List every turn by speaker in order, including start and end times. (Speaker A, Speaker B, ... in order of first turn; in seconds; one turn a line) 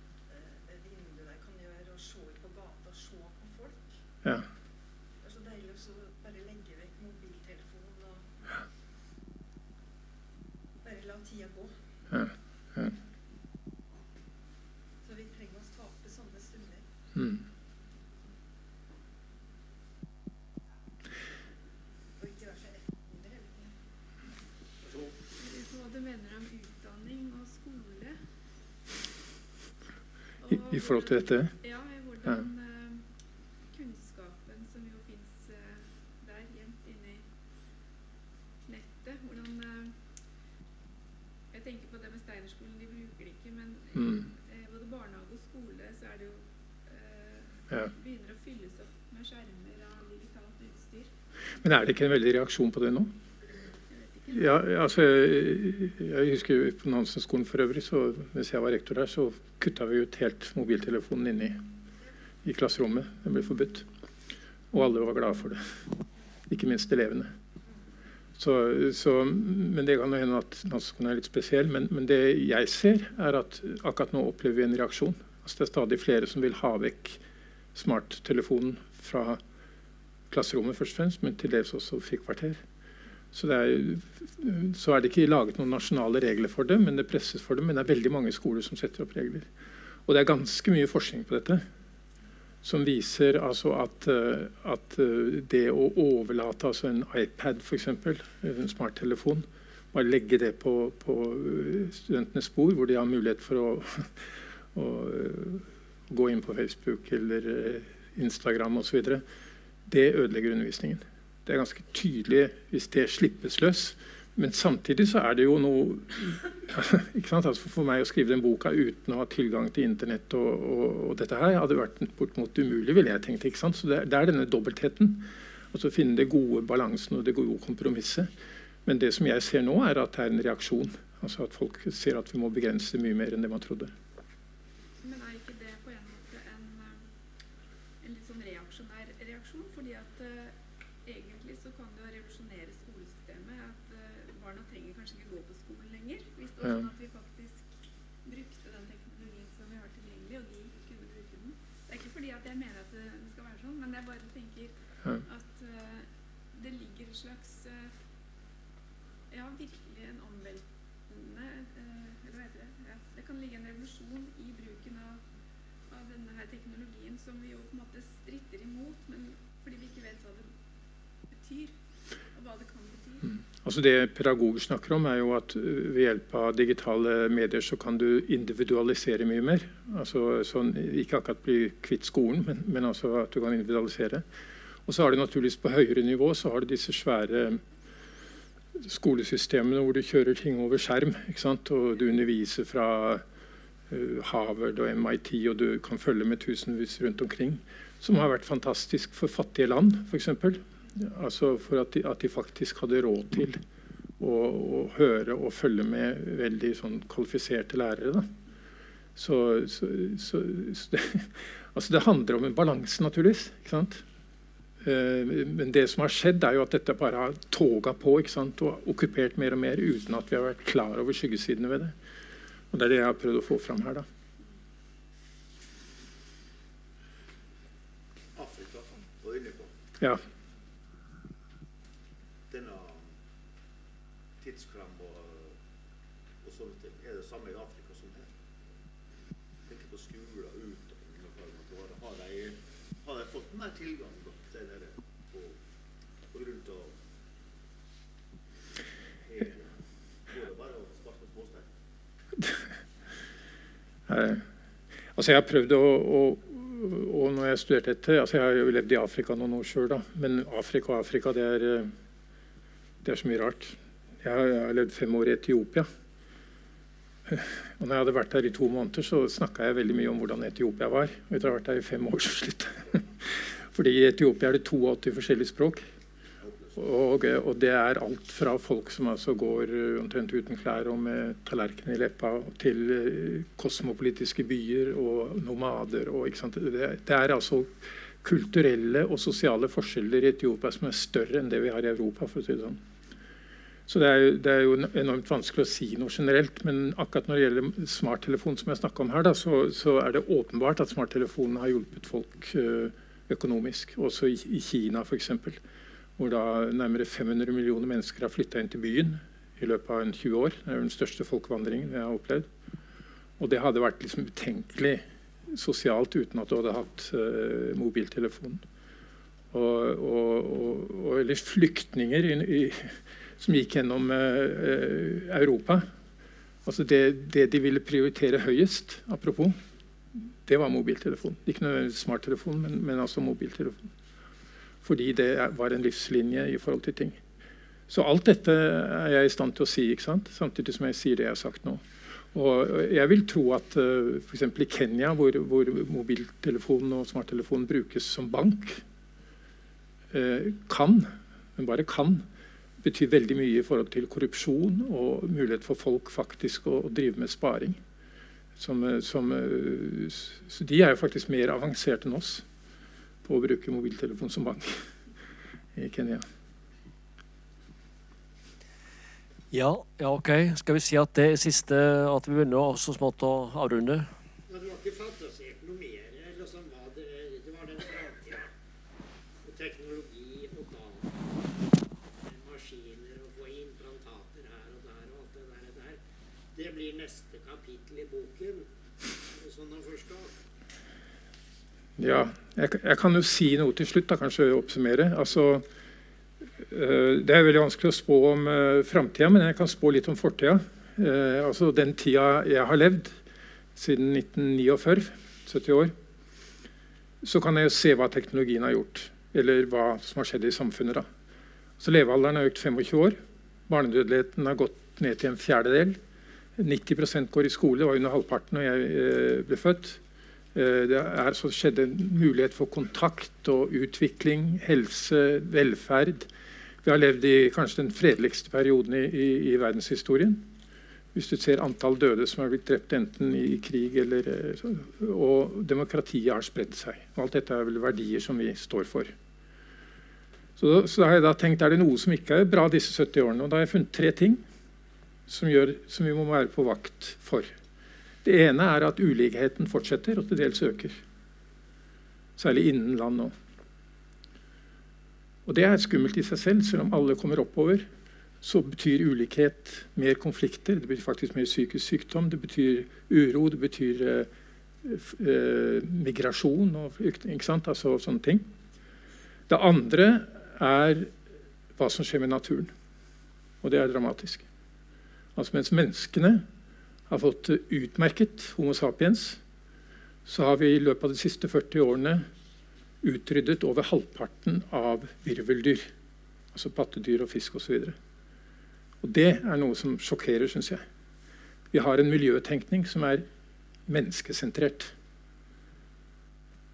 Speaker A: 0.3-3.9
Speaker A: 5.2-8.3
Speaker A: 10.8-11.8
Speaker B: 12.1-12.9
Speaker A: 15.0-16.9
Speaker B: 17.1-17.4
Speaker A: 22.2-23.7
Speaker C: 25.4-28.2
Speaker C: 30.4-33.1
Speaker B: 30.5-31.5
Speaker C: 33.7-37.3
Speaker C: 38.7-40.0
Speaker C: 41.5-51.1
Speaker B: 44.0-44.3
Speaker B: 51.6-53.1
Speaker C: 53.9-54.5
Speaker B: 54.3-61.6
Speaker B: 62.4-63.9
Speaker B: 64.7-65.6
Speaker B: 66.5-67.3
Speaker B: 68.4-77.2
Speaker B: 77.8-79.4
Speaker B: 80.3-82.6
Speaker B: 83.3-89.5
Speaker B: 90.1-91.6
Speaker B: 92.6-109.2
Speaker B: 109.9-128.3
Speaker B: 128.9-133.9
Speaker C: 135.0-137.1
Speaker C: 138.0-147.7
Speaker C: 148.2-157.9
Speaker C: 159.3-165.2
Speaker C: 165.9-170.5
Speaker C: 171.3-171.8
Speaker C: 172.3-173.4
Speaker B: 173.6-184.2
Speaker B: 184.9-187.6
Speaker B: 188.8-193.2
Speaker B: 193.9-203.6
Speaker B: 204.2-208.3
Speaker B: 209.2-214.0
Speaker B: 214.8-221.9
Speaker B: 222.7-224.1
Speaker D: 228.3-229.7
Speaker D: 232.5-233.1
Speaker D: 234.4-235.6
Speaker D: 236.4-238.3
Speaker D: 239.7-245.6
Speaker D: 246.3-247.0
Speaker D: 249.3-249.7
Speaker D: 250.3-251.7
Speaker B: 254.1-254.4
Speaker B: 255.2-261.9
Speaker B: 263.0-265.9
Speaker B: 267.3-275.9
Speaker D: 276.4-276.8
Speaker B: 276.8-292.8
Speaker B: 293.9-305.6
Speaker B: 306.2-312.5
Speaker B: 313.4-318.6
Speaker B: 319.5-325.9
Speaker B: 326.6-329.6
Speaker B: 330.4-333.8
Speaker B: 334.8-337.2
Speaker B: 337.9-348.8
Speaker B: 350.1-352.3
Speaker B: 352.8-357.8
Speaker B: 358.6-362.4
Speaker B: 363.2-364.8
Speaker B: 365.8-366.2
Speaker E: 369.5-374.1
Speaker F: 374.5-378.5
Speaker F: 379.4-381.3
Speaker F: 382.2-386.0
Speaker F: 386.6-388.7
Speaker F: 389.3-390.3
Speaker B: 392.0-395.6
Speaker B: 396.6-403.2
Speaker B: 403.8-405.9
Speaker B: 407.2-411.1
Speaker B: 411.8-416.0
Speaker B: 416.6-420.0
Speaker B: 420.5-426.3
Speaker B: 426.8-430.4
Speaker B: 431.1-439.1
Speaker B: 440.6-444.4
Speaker B: 445.3-447.5
Speaker B: 448.2-451.0
Speaker B: 452.4-453.3
Speaker B: 455.5-457.9
Speaker B: 458.4-464.3
Speaker B: 464.8-468.4
Speaker B: 469.5-471.1
Speaker B: 471.8-472.7
Speaker B: 473.6-474.4
Speaker B: 475.4-476.5
Speaker B: 477.1-479.4
Speaker B: 480.3-482.3
Speaker B: 483.0-485.9
Speaker B: 486.5-488.0
Speaker B: 489.0-490.8
Speaker B: 491.7-493.3
Speaker B: 493.9-494.9